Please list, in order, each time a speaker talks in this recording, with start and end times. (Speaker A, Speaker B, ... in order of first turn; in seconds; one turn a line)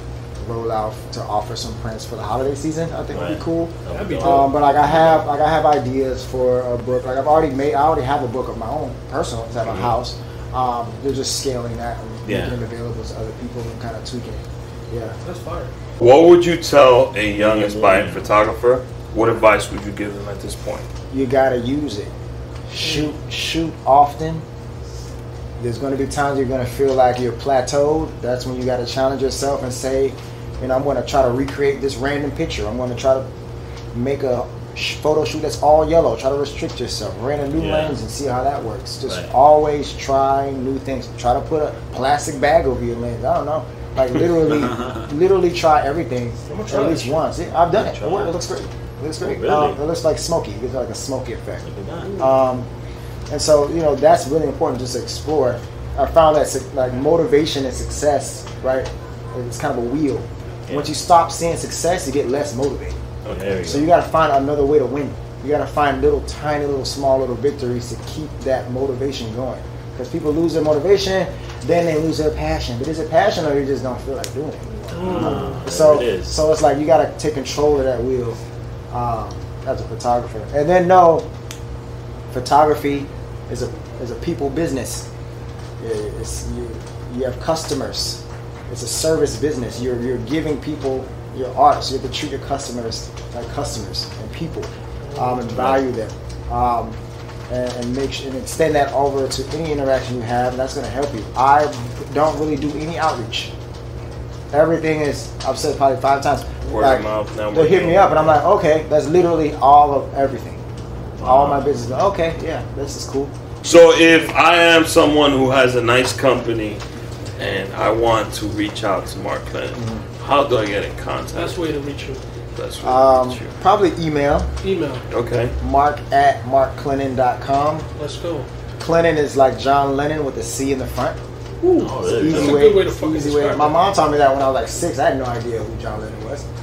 Speaker A: 0.4-15.2
Speaker B: 3.1-5.2
Speaker C: 3.9-4.5
Speaker B: 9.6-9.9
Speaker B: 12.2-12.6
Speaker C: 15.2-15.7
Speaker D: 16.0-20.9
Speaker B: 17.4-18.3
Speaker A: 21.1-22.1
Speaker A: 22.7-24.4
Speaker C: 22.8-23.1
Speaker A: 25.6-33.3
Speaker A: 33.9-51.6
Speaker B: 37.5-38.0
Speaker B: 44.4-45.1
Speaker C: 46.5-47.2
Speaker B: 47.8-48.3
Speaker B: 49.2-49.8
Speaker B: 51.6-52.1
Speaker C: 52.0-52.3
Speaker A: 52.2-52.7
Speaker A: 53.3-63.0
Speaker B: 60.7-60.9
Speaker D: 63.2-63.5
Speaker B: 63.3-63.9
Speaker A: 63.6-78.4
Speaker C: 74.9-75.7
Speaker B: 74.9-76.4
Speaker A: 78.9-81.3
Speaker A: 82.3-85.1
Speaker A: 85.8-97.0
Speaker C: 95.0-95.6
Speaker B: 95.5-95.8
Speaker A: 97.5-103.5
Speaker A: 104.5-110.6
Speaker D: 106.6-108.4
Speaker B: 111.2-111.7
Speaker A: 111.2-113.3
Speaker D: 113.6-116.8
Speaker D: 117.4-121.6
Speaker A: 119.8-120.0
Speaker C: 121.3-122.2
Speaker D: 122.5-123.6
Speaker A: 122.8-124.5
Speaker C: 124.6-125.0
Speaker D: 125.1-125.5
Speaker A: 125.6-127.9
Speaker C: 128.0-128.5
Speaker A: 128.8-131.2
Speaker C: 131.6-133.9
Speaker B: 131.8-132.8
Speaker A: 132.2-136.5